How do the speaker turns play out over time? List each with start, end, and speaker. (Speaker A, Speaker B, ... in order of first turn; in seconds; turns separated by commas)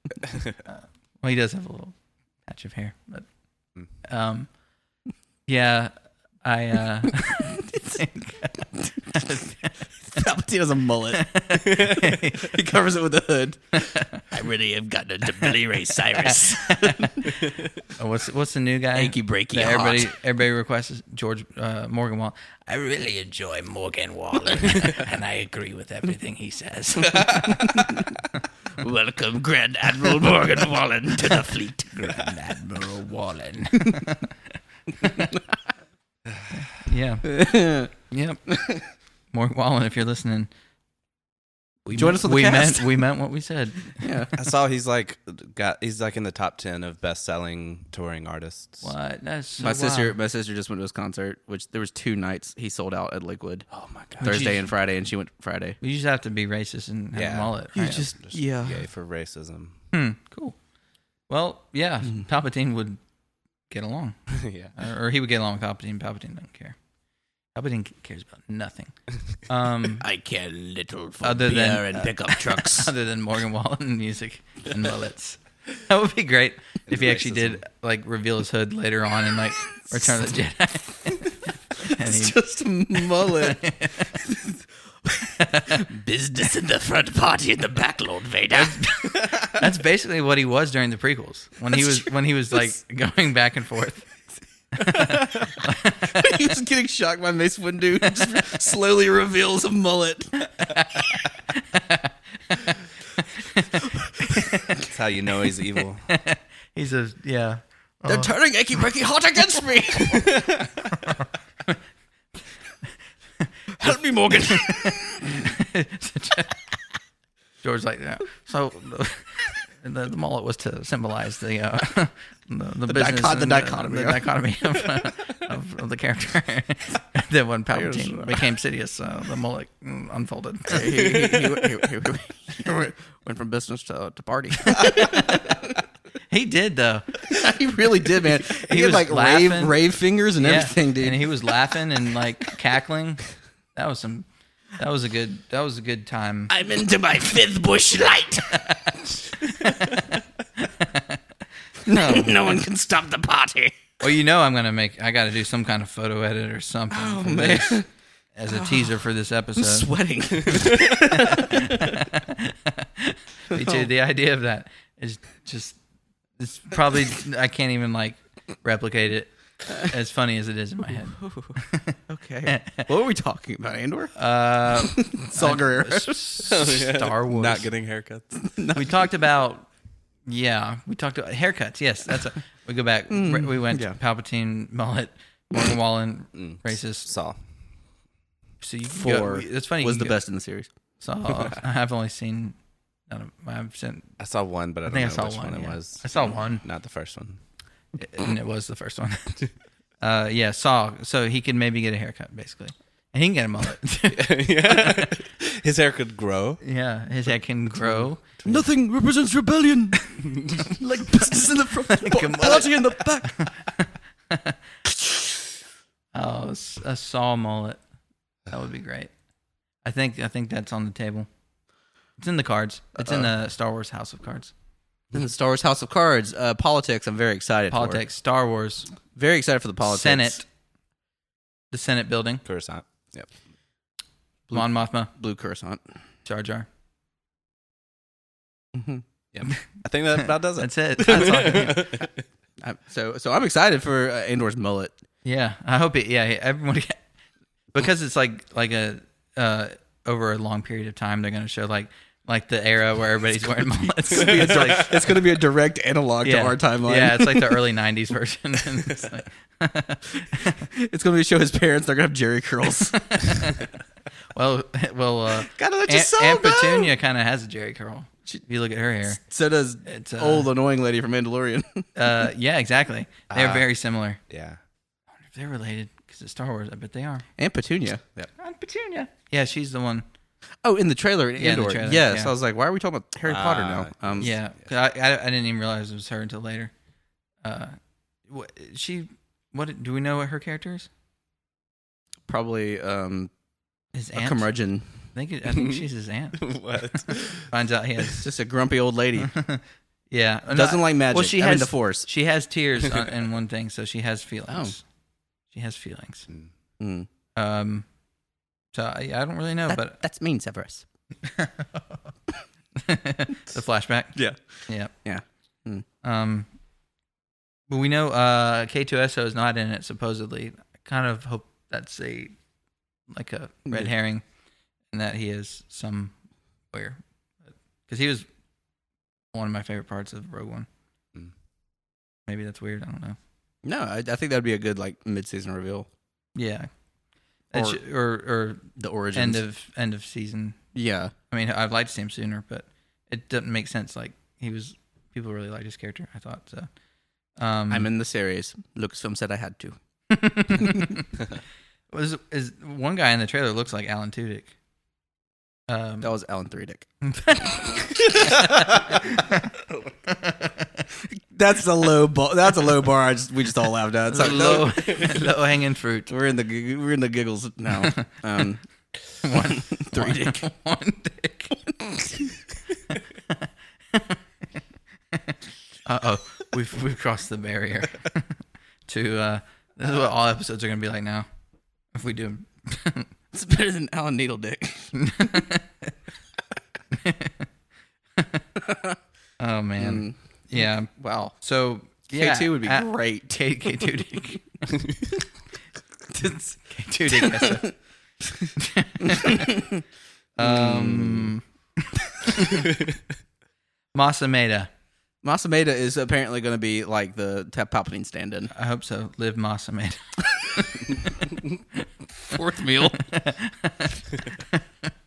Speaker A: 0.3-1.9, Speaker A: 2.5-3.3, Speaker A: 4.0-4.5, Speaker A: 5.5-5.9, Speaker A: 6.4-9.8, Speaker B: 10.1-17.3, Speaker A: 11.1-12.6, Speaker A: 13.8-14.2, Speaker A: 16.0-28.2, Speaker B: 18.9-20.1, Speaker B: 27.1-28.2, Speaker B: 28.8-32.6, Speaker A: 32.0-34.4, Speaker A: 34.9-35.4, Speaker A: 36.6-37.4, Speaker B: 37.2-37.9, Speaker A: 37.9-38.4, Speaker B: 38.5-38.8, Speaker A: 39.3-40.5, Speaker A: 41.9-44.2, Speaker B: 41.9-43.0, Speaker B: 44.0-44.3, Speaker C: 44.4-48.9, Speaker A: 48.8-50.2, Speaker B: 49.6-53.7, Speaker C: 53.7-54.5, Speaker B: 54.2-55.8, Speaker A: 54.2-54.7, Speaker A: 55.8-58.1, Speaker C: 57.1-59.8, Speaker B: 57.8-58.9, Speaker A: 59.9-60.6, Speaker A: 61.3-63.0, Speaker A: 63.7-66.8, Speaker C: 64.3-64.7, Speaker A: 67.5-70.1, Speaker B: 70.0-72.9, Speaker A: 71.2-82.4, Speaker C: 76.9-77.6, Speaker B: 81.8-89.6, Speaker A: 83.0-84.2, Speaker A: 85.2-85.8, Speaker A: 88.5-94.1, Speaker B: 91.7-92.1, Speaker A: 94.7-96.3, Speaker B: 94.9-95.3, Speaker B: 96.1-100.5, Speaker A: 100.6-102.8, Speaker A: 103.3-104.8, Speaker B: 103.8-104.6, Speaker C: 104.8-106.1, Speaker A: 106.1-108.3, Speaker B: 108.1-110.7, Speaker A: 110.9-111.7, Speaker B: 113.7-115.5, Speaker A: 114.5-116.6, Speaker A: 117.6-131.2, Speaker B: 122.9-124.3, Speaker B: 127.7-128.5, Speaker B: 130.7-135.8, Speaker C: 131.1-131.7, Speaker A: 134.6-135.6, Speaker A: 136.3-137.3, Speaker B: 137.2-141.5, Speaker A: 138.5-139.8, Speaker A: 140.4-143.2, Speaker A: 143.8-146.5, Speaker B: 146.5-148.9, Speaker A: 148.6-151.2, Speaker A: 151.8-152.6, Speaker B: 151.8-153.9, Speaker A: 154.0-157.8, Speaker B: 156.9-157.9, Speaker A: 158.3-159.9, Speaker B: 158.5-159.0, Speaker B: 159.6-162.1, Speaker C: 160.4-160.8, Speaker A: 161.1-165.8, Speaker B: 163.5-163.9, Speaker A: 166.4-172.9, Speaker B: 171.0-174.2, Speaker A: 174.2-177.7, Speaker B: 174.7-176.5, Speaker C: 176.5-178.4, Speaker B: 178.5-178.9, Speaker A: 178.7-179.7, Speaker A: 180.3-187.1, Speaker B: 183.1-184.0, Speaker C: 186.3-187.4, Speaker A: 188.6-190.2, Speaker B: 188.9-190.7, Speaker A: 191.0-192.6, Speaker A: 193.1-194.2, Speaker C: 194.2-197.4, Speaker A: 194.9-196.6, Speaker A: 198.0-199.4, Speaker A: 200.0-205.1, Speaker C: 204.1-206.6, Speaker A: 206.6-208.2, Speaker C: 207.9-208.7, Speaker B: 208.4-210.0, Speaker C: 210.2-210.7, Speaker B: 210.7-213.5, Speaker A: 210.8-214.6, Speaker A: 216.1-217.8, Speaker A: 218.5-219.1, Speaker A: 219.8-221.3, Speaker A: 222.2-224.5, Speaker B: 223.0-223.3, Speaker B: 225.1-228.0, Speaker A: 227.7-228.9, Speaker B: 229.1-230.4, Speaker A: 229.8-230.5, Speaker A: 231.7-232.4, Speaker C: 232.4-233.3, Speaker B: 234.5-235.8, Speaker A: 234.5-235.1, Speaker A: 236.2-236.7, Speaker B: 238.7-239.0, Speaker C: 239.3-242.1, Speaker A: 240.6-242.1, Speaker B: 242.6-245.0, Speaker A: 245.2-247.0, Speaker A: 247.7-255.1, Speaker B: 254.1-257.6, Speaker A: 256.2-260.7, Speaker B: 260.7-263.2, Speaker A: 262.9-263.7, Speaker A: 264.3-269.2, Speaker B: 265.4-266.9, Speaker B: 269.2-271.9, Speaker A: 269.9-270.5, Speaker A: 272.0-274.2, Speaker C: 273.3-273.7, Speaker C: 274.3-274.6, Speaker A: 275.3-277.2, Speaker B: 277.4-278.2, Speaker A: 278.4-280.1, Speaker B: 280.6-284.3, Speaker A: 281.4-282.3, Speaker C: 283.3-284.7, Speaker A: 284.2-286.7, Speaker A: 287.4-287.8, Speaker A: 288.3-290.9, Speaker B: 292.3-293.3, Speaker A: 293.9-294.5, Speaker B: 294.1-294.9, Speaker A: 295.1-298.3, Speaker C: 295.5-295.8, Speaker C: 296.4-297.5, Speaker B: 298.2-299.3, Speaker A: 299.2-304.8, Speaker B: 300.5-302.1, Speaker B: 304.5-304.7, Speaker A: 305.5-306.3, Speaker B: 306.8-307.1, Speaker A: 307.4-307.9, Speaker A: 308.7-310.0, Speaker B: 309.7-310.9, Speaker A: 311.3-311.8, Speaker A: 312.8-314.9, Speaker B: 315.0-315.9, Speaker A: 316.0-316.5, Speaker A: 317.7-322.3, Speaker A: 323.1-324.2, Speaker A: 324.9-326.1, Speaker A: 326.7-327.0, Speaker A: 327.9-328.3, Speaker A: 329.3-330.7, Speaker A: 332.3-333.2, Speaker B: 333.6-335.9, Speaker A: 336.4-336.7, Speaker A: 337.5-340.6, Speaker B: 337.5-337.8, Speaker B: 338.8-339.4, Speaker B: 340.7-341.1, Speaker A: 341.3-346.7, Speaker A: 347.4-347.9, Speaker B: 347.7-349.8, Speaker A: 350.1-351.2, Speaker A: 351.9-354.5, Speaker A: 355.7-356.1, Speaker B: 356.0-356.9, Speaker A: 357.0-360.8, Speaker B: 360.9-365.3, Speaker A: 364.1-366.1, Speaker B: 366.1-368.6, Speaker A: 367.8-368.1, Speaker A: 369.2-372.3, Speaker B: 369.3-370.4, Speaker A: 373.3-374.2, Speaker A: 375.1-378.3, Speaker A: 378.9-381.3, Speaker A: 381.9-383.1, Speaker B: 383.3-385.4, Speaker A: 384.9-385.9, Speaker A: 386.9-387.5, Speaker A: 388.2-388.5, Speaker B: 388.6-389.0, Speaker A: 389.4-394.9, Speaker B: 389.8-390.2, Speaker B: 391.0-391.3, Speaker B: 392.1-393.9, Speaker A: 396.1-397.7, Speaker B: 397.2-397.6, Speaker A: 398.6-399.7, Speaker B: 399.0-399.8, Speaker A: 400.4-402.7, Speaker B: 400.4-401.3, Speaker A: 403.9-404.7, Speaker B: 405.2-408.5, Speaker A: 408.5-411.3, Speaker B: 412.3-413.0, Speaker A: 412.9-414.6